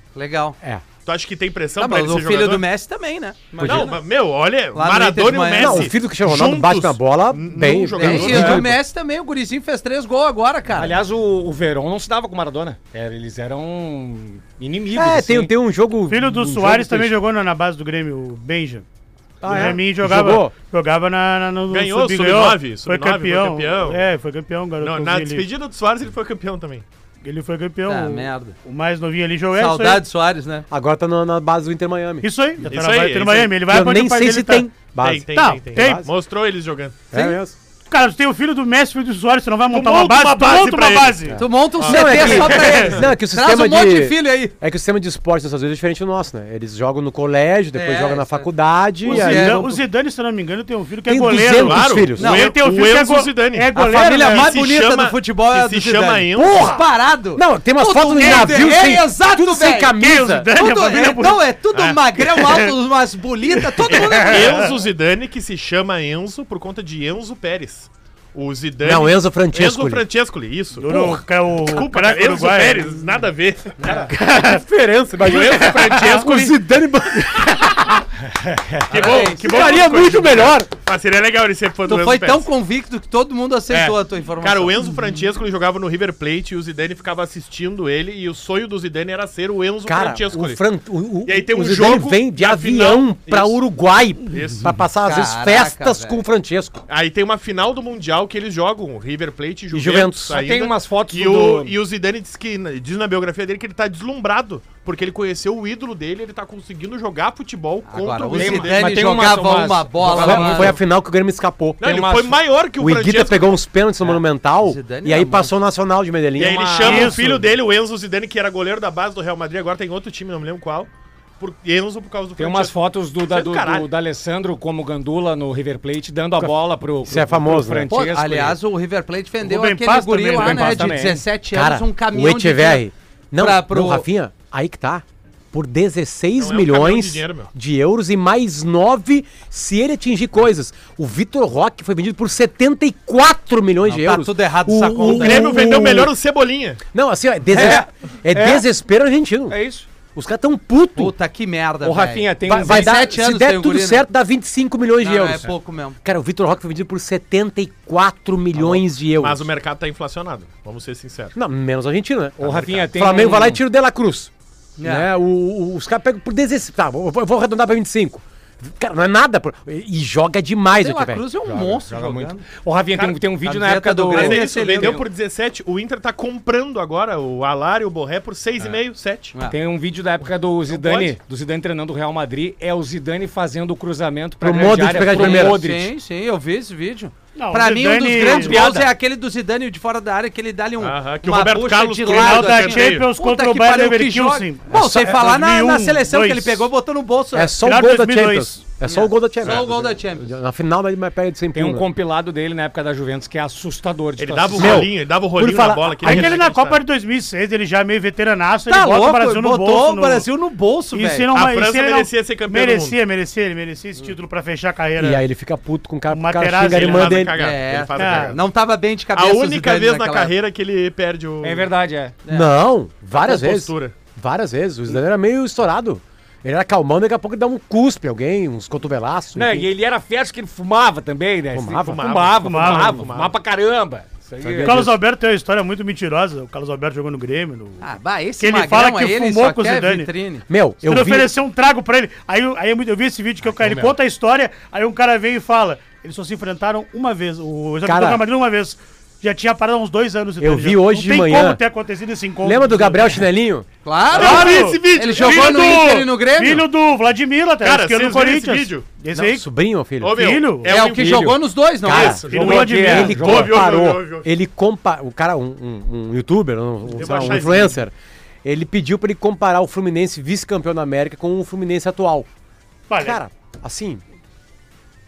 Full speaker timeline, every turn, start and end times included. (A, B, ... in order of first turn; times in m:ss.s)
0:00.1-0:00.6 A
0:01.0-0:02.6 B
0:01.8-0:04.0 A
0:03.5-0:04.0 C
0:03.6-0:08.8 B
0:04.7-0:05.9 A
0:05.5-0:08.6 D
0:08.0-0:11.0 A
0:10.8-0:15.5 C
0:14.9-0:17.2 D
0:16.1-0:18.8 E
0:19.4-0:20.5 D
0:19.4-0:19.7 B
0:19.4-0:25.5 E
0:21.7-0:24.0 B
0:24.8-0:26.8 B
0:27.2-0:30.0 E
0:27.8-0:28.6 A
0:29.5-0:30.6 A
0:30.7-0:32.3 D
0:32.2-0:34.6 E
0:32.6-0:33.6 B
0:33.7-0:36.1 D
0:35.0-0:37.0 B
0:35.3-0:36.0 E
0:37.1-0:37.6 D
0:37.9-0:41.4 E
0:39.7-0:41.3 B
0:41.3-0:49.7 D
0:41.4-0:44.5 A
0:41.8-0:42.7 B
0:42.2-0:43.0 E
0:47.7-0:48.5 A
0:49.0-0:49.8 A
0:49.0-0:54.5 E
0:51.0-0:52.4 D
0:51.6-0:56.6 B
0:52.2-0:52.5 A
0:53.8-0:59.9 A
0:53.8-0:54.1 D
0:56.3-1:00.5 D
0:59.9-1:01.4 E
1:00.5-1:04.7 A
1:02.2-1:02.7 E
1:03.6-1:04.7 E
1:03.9-1:11.0 B
1:08.8-1:10.0 D
1:10.8-1:13.1 E
1:10.8-1:11.2 D
1:11.6-1:14.1 B
1:13.9-1:14.6 E
1:14.3-1:18.1 D
1:15.2-1:16.3 B
1:15.6-1:16.5 E
1:18.3-1:18.8 C
1:18.9-1:19.8 A
1:18.9-1:22.5 B
1:19.4-1:20.7 D
1:21.8-1:24.8 A
1:23.7-1:30.6 B
1:29.9-1:36.8 D
1:31.2-1:33.6 B
1:34.3-1:34.7 B
1:35.0-1:36.2 A
1:36.9-1:48.8 B
1:39.7-1:40.4 D
1:40.3-1:41.8 C
1:47.8-1:50.8 A
1:48.3-1:50.8 C
1:50.2-1:51.9 D
1:51.8-1:53.6 B
1:51.8-1:52.4 C
1:52.8-1:57.1 D
1:54.6-1:55.5 A
1:56.4-2:00.9 B
1:56.4-1:57.2 C
1:56.8-1:57.5 E
2:01.4-2:02.7 B
2:02.4-2:08.6 C
2:03.3-2:03.9 B
2:07.0-2:07.9 D
2:07.9-2:12.8 A
2:09.4-2:10.9 E
2:10.3-2:11.2 C
2:11.5-2:26.1 D
2:13.4-2:14.0 A
2:16.4-2:17.5 B
2:23.8-2:25.6 A
2:25.0-2:26.8 B
2:26.9-2:29.6 D
2:27.5-2:28.7 C
2:29.5-2:29.9 C
2:30.1-2:31.1 D
2:31.0-2:34.1 A
2:31.8-2:33.0 C
2:32.5-2:35.5 D
2:35.0-2:36.0 A
2:36.0-2:39.5 D
2:39.2-2:41.3 B
2:41.4-2:44.3 D
2:42.4-2:43.6 C
2:44.8-2:45.1 A
2:44.8-2:51.8 D
2:50.7-2:52.4 A
2:51.6-2:54.8 C
2:53.4-2:55.1 A
2:54.1-2:59.3 B
2:59.4-3:05.9 C
3:00.7-3:01.1 B
3:04.4-3:05.6 D
3:05.1-3:17.5 A
3:07.4-3:08.7 E
3:08.2-3:08.9 C
3:10.8-3:13.1 B
3:12.1-3:16.7 E
3:14.7-3:15.1 D
3:17.3-3:21.9 D
3:17.6-3:18.6 E
3:18.8-3:20.3 A
3:21.5-3:24.9 C
3:24.2-3:26.8 B
3:24.6-3:26.3 D
3:26.0-3:30.3 E
3:28.7-3:31.3 A
3:30.9-3:35.2 E
3:31.3-3:33.0 B
3:35.0-3:37.3 D
3:36.1-3:37.2 E
3:36.6-3:38.4 B
3:37.4-3:40.3 A
3:37.9-3:38.3 E
3:39.1-3:41.7 B
3:41.4-3:42.1 C
3:42.2-3:42.5 A
3:42.3-3:49.7 D
3:43.1-3:44.0 B
3:49.3-3:54.9 C
3:51.5-3:52.1 D
3:52.0-3:53.3 B
3:52.4-3:52.9 E
3:54.4-3:54.9 D
3:54.6-3:57.9 E
3:57.8-4:00.4 A
3:58.4-4:00.1 E
4:00.5-4:01.3 D
4:00.8-4:13.2 E
4:03.6-4:03.9 C
4:07.8-4:08.2 D
4:10.4-4:11.6 D
4:12.4-4:13.7 D
4:13.8-4:16.7 A
4:14.1-4:16.0 B
4:14.1-4:19.4 E
4:17.6-4:18.9 B
4:19.1-4:20.2 D
4:20.0-4:24.3 B
4:20.0-4:20.7 E
4:20.6-4:22.2 A
4:21.0-4:27.9 D
4:22.3-4:23.1 E
4:22.3-4:23.6 C
4:26.9-4:27.8 B
4:28.4-4:32.3 D
4:32.9-4:33.2 E
4:32.9-4:34.0 D